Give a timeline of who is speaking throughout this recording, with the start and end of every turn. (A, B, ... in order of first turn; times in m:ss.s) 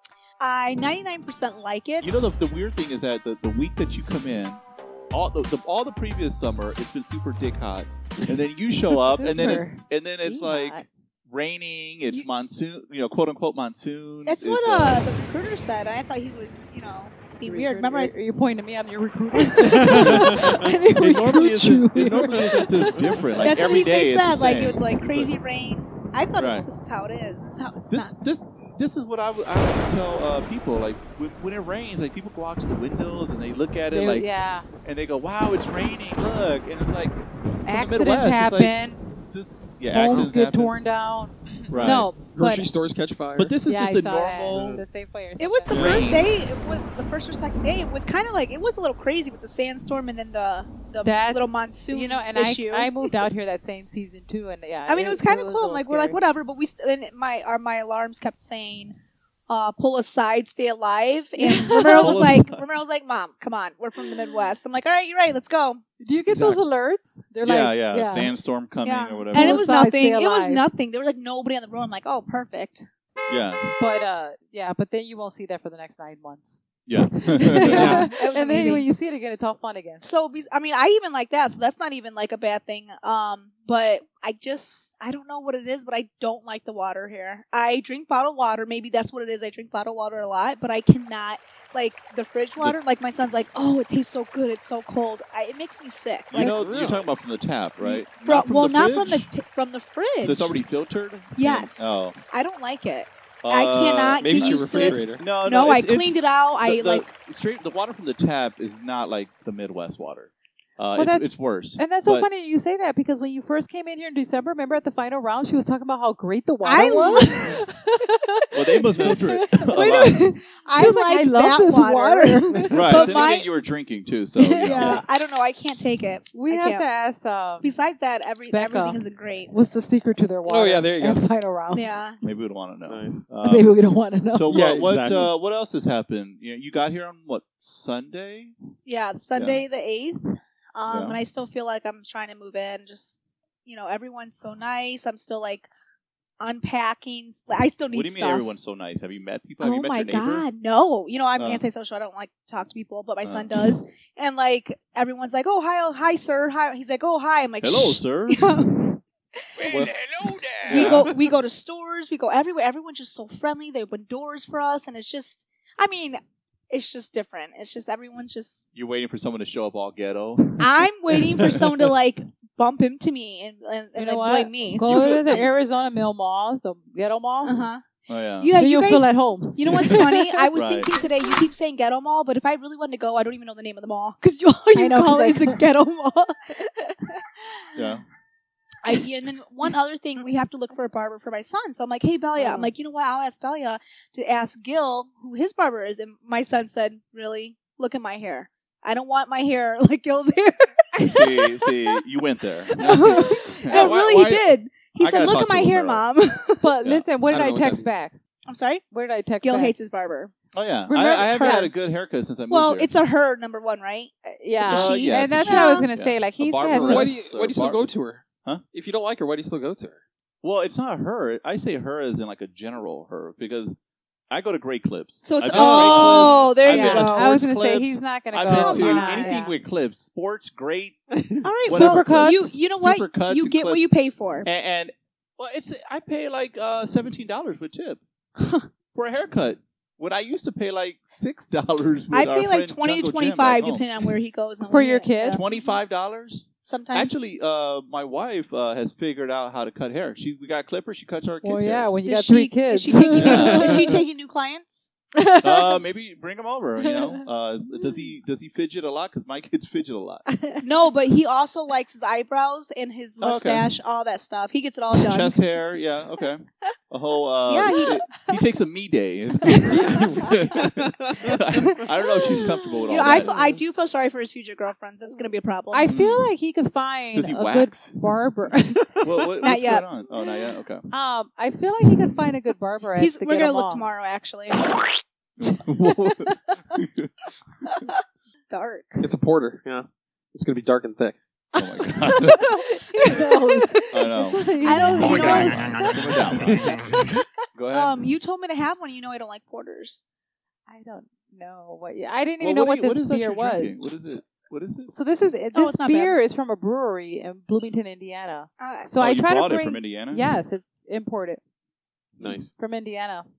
0:00.4-0:02.1 A
0:02.0-0:04.6 B
0:05.1-0:15.1 B
0:09.1-0:10.9 C
0:14.3-0:18.1 A
0:17.4-0:23.2 C
0:19.4-0:19.8 A
0:19.7-0:20.5 D
0:19.9-0:25.4 B
0:23.4-0:28.2 A
0:26.4-0:26.7 B
0:27.9-0:34.3 B
0:33.9-0:34.7 C
0:34.8-0:40.7 B
0:37.6-0:39.0 C
0:39.9-0:42.7 C
0:41.7-0:42.1 B
0:41.8-0:43.6 D
0:43.4-0:44.8 B
0:43.7-0:45.8 C
0:44.5-0:44.8 D
0:45.4-0:53.2 A
0:45.7-0:46.3 B
0:51.0-0:56.2 C
0:54.9-0:59.0 A
0:59.5-1:05.8 A
1:01.4-1:02.4 C
1:01.9-1:02.6 B
1:06.0-1:08.3 C
1:06.3-1:06.6 B
1:07.4-1:09.7 B
1:08.8-1:12.9 A
1:09.3-1:10.6 C
1:13.3-1:13.7 B
1:13.8-1:16.6 C
1:16.9-1:18.1 B
1:17.1-1:20.0 C
1:17.6-1:18.9 A
1:17.7-1:18.1 D
1:20.0-1:36.6 A
1:36.3-1:39.3 B
1:36.4-1:37.1 D
1:37.8-1:40.6 A
1:40.2-1:42.2 B
1:41.4-1:47.1 A
1:43.4-1:52.3 B
1:44.2-1:45.2 D
1:51.0-2:03.0 C
1:56.6-1:57.6 A
1:56.7-1:57.5 B
1:58.5-2:00.3 B
1:59.7-2:03.5 A
2:02.7-2:05.0 B
2:04.5-2:06.8 A
2:06.3-2:07.7 C
2:07.6-2:09.5 A
2:08.5-2:11.8 C
2:10.5-2:11.2 D
2:11.7-2:12.2 A
2:12.2-2:13.8 B
2:12.9-2:13.2 D
2:13.4-2:14.6 C
2:14.3-2:18.5 B
2:14.5-2:15.3 D
2:18.8-2:25.7 A
2:19.4-2:19.6 B
2:20.9-2:21.2 B
2:26.4-2:28.5 A
2:27.9-2:30.5 B
2:29.6-2:39.8 A
2:31.4-2:31.7 B
2:33.2-2:33.8 B
2:37.6-2:38.7 B
2:39.7-2:40.0 B
2:39.9-2:41.0 D
2:40.6-2:41.2 B
2:40.6-2:48.6 A
2:48.8-2:51.9 B
2:50.6-2:55.5 A
2:54.0-2:57.6 C
2:54.8-2:55.4 B
2:57.4-2:57.8 A
2:58.1-2:58.5 B
2:58.4-3:07.2 A
2:58.6-3:00.5 C
2:59.7-3:00.9 B
3:04.8-3:05.6 C
3:07.8-3:08.0 B
3:08.8-3:22.0 A
3:12.4-3:12.7 C
3:21.0-3:26.1 B
3:22.7-3:26.7 A
3:26.6-3:28.2 C
3:27.3-3:27.9 D
3:28.5-3:28.8 A
3:28.9-3:29.7 C
3:29.4-3:30.3 A
3:30.5-3:32.9 B
3:30.9-3:31.7 C
3:31.3-3:31.7 A
3:32.5-3:35.9 A
3:34.2-3:37.1 C
3:34.7-3:37.9 B
3:36.8-3:40.0 D
3:40.4-3:43.8 B
3:44.3-3:51.0 B
3:45.2-3:47.3 A
3:45.5-3:46.4 D
3:46.6-3:49.5 C
3:48.5-3:49.4 A
3:51.1-3:51.4 D
3:51.4-3:54.5 A
3:51.6-3:53.9 B
3:51.7-3:52.5 C
3:54.4-3:58.0 B
3:58.4-3:58.7 A
3:58.9-4:04.1 B
4:02.1-4:05.5 A
4:04.7-4:05.4 C
4:05.2-4:11.9 B
4:06.6-4:07.2 A
4:11.4-4:14.0 C
4:12.0-4:14.9 A
4:13.1-4:14.0 B
4:13.2-4:13.6 D
4:15.2-4:15.8 C
4:15.4-4:20.2 B
4:16.8-4:17.2 C
4:20.6-4:25.4 A
4:23.2-4:23.8 B
4:24.9-4:33.4 B
4:27.4-4:28.4 A
4:29.5-4:30.4 A
4:29.7-4:31.4 D
4:31.3-4:35.9 A
4:35.7-4:38.9 C
4:35.9-4:36.3 B
4:37.1-4:38.1 B
4:39.0-4:40.8 B
4:39.4-4:39.9 A
4:40.9-4:43.9 C
4:43.0-4:44.8 A
4:45.4-4:47.1 B
4:48.5-4:49.1 A
4:49.0-4:51.2 D
4:51.6-4:52.6 B
4:51.6-4:55.7 C
4:52.8-4:53.8 A
4:53.9-4:56.7 B
4:54.6-5:00.0 A
4:57.6-4:58.1 B
5:00.7-5:03.8 C
5:02.4-5:04.9 B
5:04.9-5:11.4 C
5:05.5-5:06.2 A
5:08.6-5:09.0 A
5:09.0-5:10.2 B
5:12.2-5:12.5 D
5:12.6-5:13.2 C